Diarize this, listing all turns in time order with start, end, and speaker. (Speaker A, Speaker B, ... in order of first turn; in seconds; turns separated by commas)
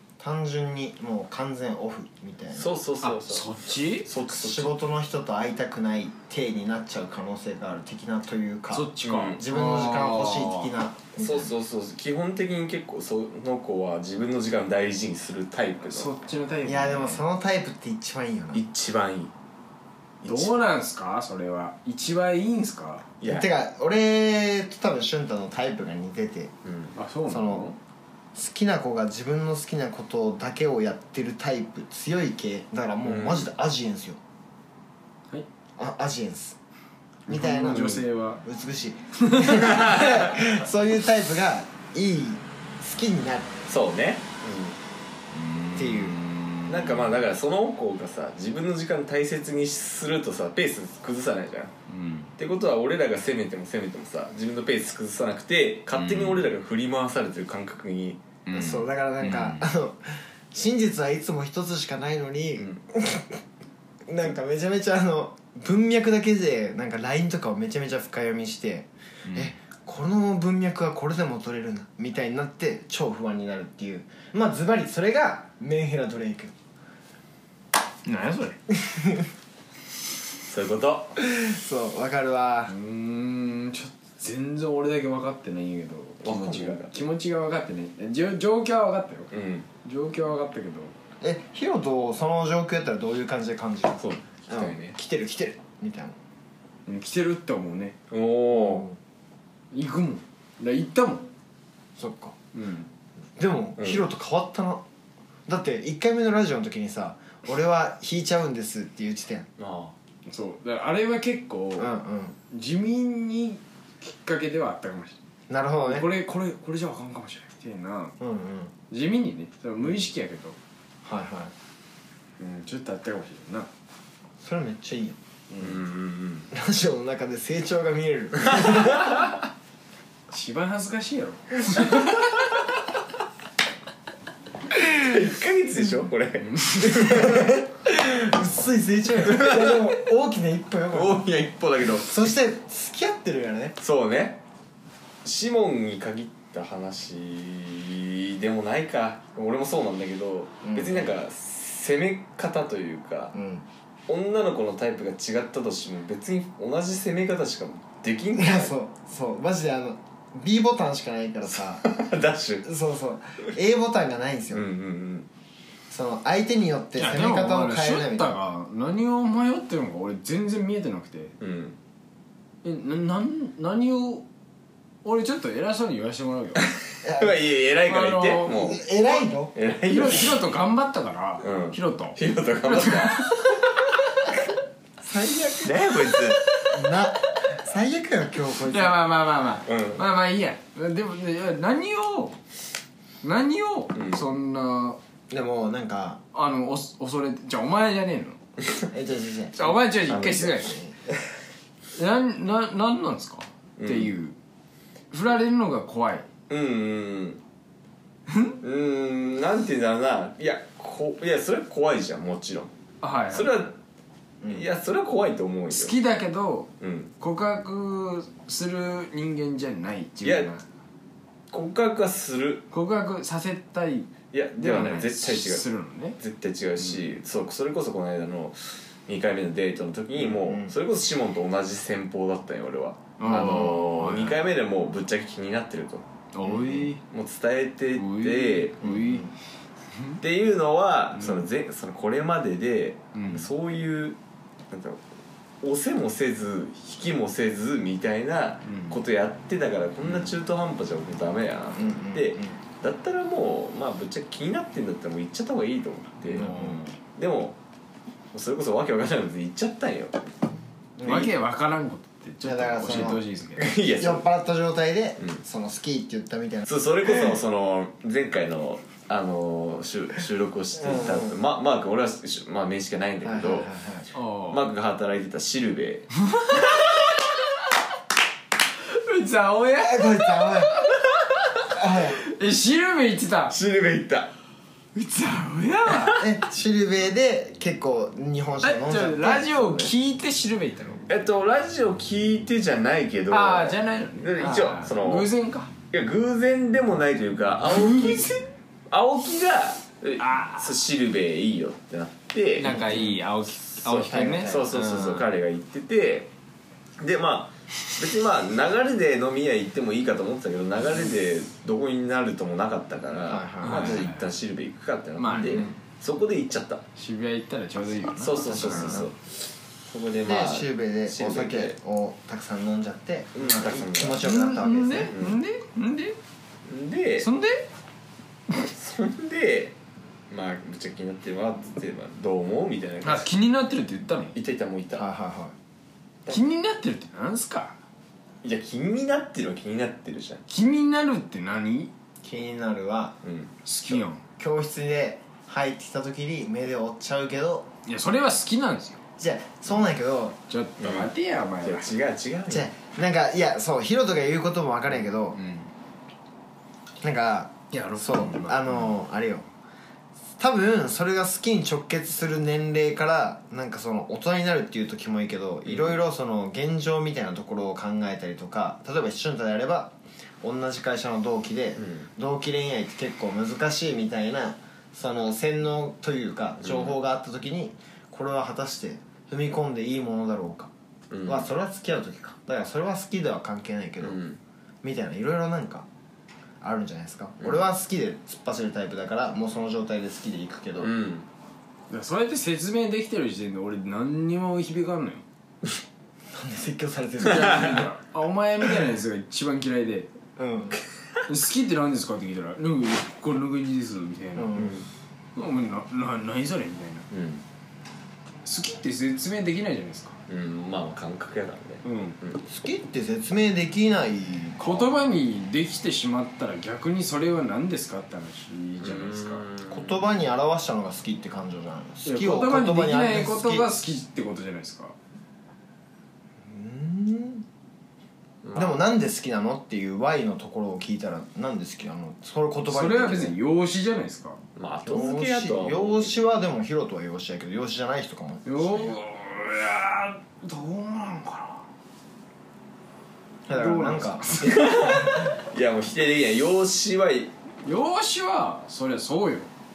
Speaker A: 0.2-2.7, Speaker B: 2.5-4.7, Speaker C: 3.0-4.1, Speaker A: 4.3-11.5, Speaker C: 8.7-10.7, Speaker B: 9.0-9.4, Speaker B: 11.2-16.1, Speaker C: 15.9-17.2, Speaker A: 16.6-18.6, Speaker B: 18.5-19.3, Speaker B: 20.2-20.6, Speaker C: 20.2-23.1, Speaker B: 23.2-23.5, Speaker A: 23.2-26.5, Speaker B: 26.6-26.9, Speaker C: 26.9-27.7, Speaker A: 27.3-27.7, Speaker A: 28.3-34.2, Speaker B: 33.0-33.5, Speaker A: 35.8-36.6, Speaker C: 37.3-38.4, Speaker A: 37.3-43.5, Speaker C: 39.2-39.6, Speaker B: 39.5-40.4, Speaker B: 43.7-44.8, Speaker C: 45.3-47.1, Speaker A: 45.7-46.2, Speaker B: 46.7-51.7, Speaker C: 51.9-52.3, Speaker B: 52.4-58.2, Speaker C: 55.9-56.5, Speaker C: 58.5-59.7, Speaker A: 58.5-63.4, Speaker A: 64.1-76.5, Speaker C: 69.2-69.5, Speaker C: 78.0-78.6, Speaker A: 78.8-79.3, Speaker B: 80.5-81.2, Speaker A: 81.2-82.7, Speaker C: 82.7-89.3, Speaker B: 86.2-86.9, Speaker B: 89.3-89.7, Speaker C: 89.8-90.9, Speaker A: 91.2-96.2, Speaker B: 94.0-95.0, Speaker C: 96.8-98.0, Speaker B: 98.1-98.9, Speaker A: 98.5-99.0, Speaker C: 99.7-101.3, Speaker A: 102.0-102.3, Speaker C: 102.5-102.9, Speaker A: 103.4-104.8, Speaker B: 103.8-104.0, Speaker A: 105.5-109.5, Speaker B: 109.6-109.9, Speaker C: 110.2-111.9, Speaker A: 111.8-112.3, Speaker C: 112.5-115.2, Speaker A: 115.5-116.1, Speaker C: 115.8-118.2, Speaker A: 118.2-118.7, Speaker C: 118.9-120.6, Speaker A: 121.0-121.5, Speaker C: 122.4-123.7, Speaker A: 124.4-125.2, Speaker C: 125.5-125.8, Speaker B: 125.6-126.5, Speaker A: 126.5-129.3, Speaker B: 128.5-129.2, Speaker C: 130.3-132.2, Speaker B: 134.8-137.6, Speaker C: 136.5-136.8, Speaker A: 136.9-141.3, Speaker B: 139.2-139.9, Speaker B: 140.9-142.3, Speaker A: 141.9-143.8, Speaker B: 143.8-144.4, Speaker B: 145.2-153.3, Speaker A: 150.6-151.1, Speaker A: 153.3-153.6, Speaker B: 154.1-158.7, Speaker A: 158.3-161.8, Speaker B: 161.6-162.7, Speaker A: 162.6-164.7, Speaker B: 164.5-165.3, Speaker A: 165.9-168.4, Speaker C: 166.9-171.3, Speaker B: 171.4-171.8, Speaker C: 172.6-174.2, Speaker C: 175.0-176.7, Speaker B: 176.6-178.8, Speaker A: 177.0-177.4, Speaker C: 177.9-178.8, Speaker A: 178.6-179.5, Speaker B: 179.5-180.5, Speaker C: 179.9-183.7, Speaker B: 181.4-183.6, Speaker A: 185.0-185.9, Speaker B: 185.6-186.4, Speaker A: 186.7-189.0, Speaker C: 188.7-192.4, Speaker B: 189.7-190.0, Speaker C: 193.2-195.0, Speaker B: 193.9-194.2, Speaker A: 195.3-196.2, Speaker C: 196.3-198.4, Speaker A: 198.9-199.7, Speaker C: 199.6-200.8, Speaker B: 199.9-200.7, Speaker A: 200.6-200.9, Speaker C: 201.9-204.3, Speaker B: 203.8-204.1, Speaker C: 205.1-206.3, Speaker B: 206.5-207.4, Speaker C: 208.3-208.6, Speaker B: 208.6-212.7, Speaker C: 213.0-213.6, Speaker B: 213.3-213.7, Speaker B: 214.5-215.9, Speaker C: 215.7-220.6, Speaker B: 216.8-217.1, Speaker B: 220.2-220.5, Speaker B: 221.5-222.7, Speaker C: 222.7-226.2, Speaker B: 224.3-225.7, Speaker B: 226.2-236.0, Speaker A: 230.2-230.7, Speaker C: 233.2-234.4, Speaker C: 236.3-237.0, Speaker A: 236.5-236.9, Speaker B: 237.1-238.8, Speaker C: 237.9-239.3, Speaker A: 238.8-239.3, Speaker B: 240.2-244.2, Speaker C: 241.2-241.5, Speaker C: 243.1-243.5, Speaker B: 244.7-245.0, Speaker B: 245.6-256.5, Speaker C: 248.7-249.0, Speaker A: 251.8-252.6, Speaker C: 256.3-257.0, Speaker A: 256.3-256.8, Speaker B: 257.1-257.6, Speaker B: 258.3-260.1, Speaker A: 261.0-261.3, Speaker C: 261.0-263.7, Speaker A: 262.4-263.2, Speaker B: 262.9-264.2, Speaker A: 264.0-267.4, Speaker B: 266.7-273.7, Speaker A: 270.8-271.4, Speaker A: 273.2-274.1, Speaker C: 274.1-274.6, Speaker B: 274.5-276.9, Speaker C: 276.3-276.9, Speaker C: 278.9-283.5, Speaker A: 279.8-280.8, Speaker A: 281.7-282.2, Speaker B: 283.5-284.3, Speaker C: 284.9-286.2, Speaker B: 285.9-286.3, Speaker A: 286.2-289.9, Speaker C: 288.6-291.1, Speaker B: 291.1-295.3, Speaker C: 293.3-295.7, Speaker B: 295.9-302.8, Speaker C: 297.7-298.2, Speaker C: 300.2-300.7, Speaker C: 302.6-305.2, Speaker A: 302.6-303.2, Speaker A: 303.8-304.7, Speaker B: 304.4-306.3, Speaker B: 307.0-316.8, Speaker A: 313.3-314.0, Speaker C: 313.6-314.2, Speaker C: 315.2-315.7, Speaker C: 316.9-319.1, Speaker B: 318.2-319.2, Speaker A: 318.4-319.1, Speaker B: 319.9-321.8, Speaker A: 320.2-325.1, Speaker B: 323.3-324.3, Speaker C: 324.2-326.2, Speaker B: 325.1-325.4, Speaker B: 326.6-327.3, Speaker C: 327.2-327.7, Speaker B: 328.5-329.7, Speaker B: 330.3-333.3, Speaker C: 333.0-334.3, Speaker B: 334.3-335.1, Speaker A: 334.9-335.5, Speaker C: 336.3-337.8, Speaker B: 338.4-340.4, Speaker C: 340.5-341.9, Speaker A: 342.2-343.1, Speaker B: 343.2-343.6, Speaker C: 343.6-344.2, Speaker A: 344.4-347.7, Speaker C: 347.9-349.0, Speaker A: 349.2-350.4, Speaker C: 350.5-351.9, Speaker B: 350.8-351.1, Speaker B: 351.6-352.7, Speaker A: 352.5-355.4, Speaker C: 355.3-355.7, Speaker A: 357.0-359.4, Speaker C: 357.7-358.9, Speaker A: 360.4-380.7, Speaker B: 365.6-365.9, Speaker B: 371.8-372.1, Speaker B: 376.6-377.0, Speaker B: 381.1-381.5, Speaker A: 381.2-384.2, Speaker B: 384.0-384.4, Speaker A: 384.8-385.9, Speaker A: 386.6-390.9, Speaker B: 390.8-391.3, Speaker C: 391.9-395.2, Speaker A: 396.3-397.9, Speaker C: 397.2-400.1, Speaker A: 400.4-400.8, Speaker C: 401.3-404.7, Speaker A: 404.3-404.8, Speaker B: 404.6-404.9, Speaker C: 405.3-407.1, Speaker B: 407.1-407.4, Speaker C: 408.4-410.2, Speaker B: 410.3-412.4, Speaker C: 411.8-412.2, Speaker A: 412.5-414.7, Speaker C: 414.6-419.4, Speaker B: 418.8-420.1, Speaker A: 419.7-423.7, Speaker C: 422.0-424.9, Speaker A: 426.4-427.4, Speaker B: 428.4-428.8, Speaker A: 428.5-433.4, Speaker C: 432.7-434.4, Speaker B: 434.6-436.2, Speaker A: 434.8-438.9, Speaker C: 438.4-441.6, Speaker A: 443.5-445.3, Speaker C: 443.5-445.1, Speaker B: 444.4-447.3, Speaker C: 447.6-449.5